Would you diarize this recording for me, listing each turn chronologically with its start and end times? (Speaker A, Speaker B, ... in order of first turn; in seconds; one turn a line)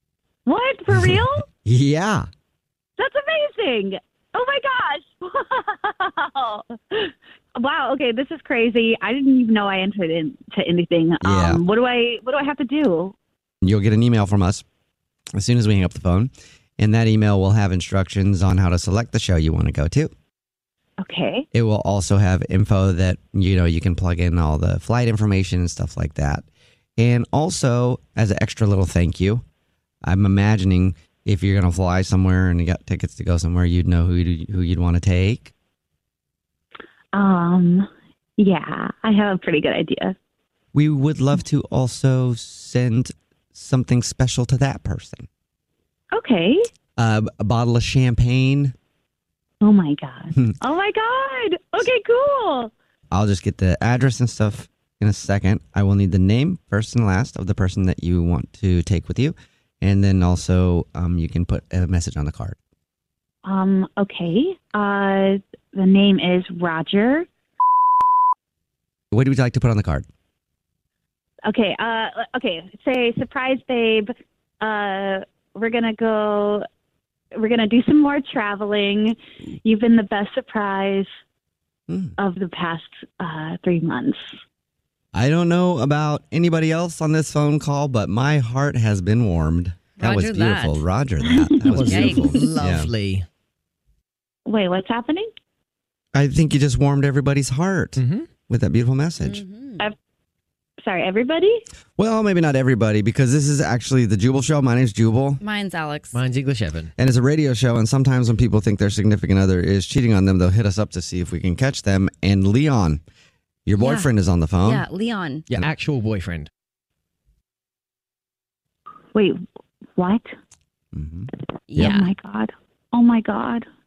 Speaker A: 0.5-1.4
Speaker B: 0.9-2.3
Speaker A: 3.0-13.2
Speaker B: 11.2-11.6
Speaker B: 13.6-14.6
Speaker B: 15.4-20.1
Speaker A: 21.0-21.5
Speaker B: 21.5-26.4
Speaker B: 27.0-29.4
Speaker B: 30.1-35.5
Speaker A: 37.1-40.2
Speaker B: 40.7-45.3
Speaker A: 46.1-46.7
Speaker B: 47.0-48.7
Speaker A: 49.6-52.7
Speaker B: 53.1-62.6
Speaker A: 63.4-67.3
Speaker B: 69.1-70.0
Speaker A: 71.5-76.7
Speaker A: 77.3-81.1
Speaker B: 81.9-82.2
Speaker A: 82.2-84.2
Speaker B: 85.1-92.9
Speaker C: 90.0-90.8
Speaker A: 91.3-91.7
Speaker D: 91.7-93.3
Speaker C: 91.8-92.5
Speaker A: 94.5-95.3
Speaker B: 96.1-99.4
Speaker D: 98.0-98.3
Speaker C: 99.2-99.9
Speaker A: 100.8-101.6
Speaker B: 102.0-105.4
Speaker C: 105.4-106.2
Speaker D: 106.1-106.9
Speaker B: 107.0-113.0
Speaker B: 113.7-114.8
Speaker C: 113.8-114.1
Speaker C: 114.6-115.5
Speaker D: 115.5-116.5
Speaker A: 120.0-120.3
Speaker B: 120.9-121.3
Speaker C: 121.7-122.1
Speaker A: 121.8-123.7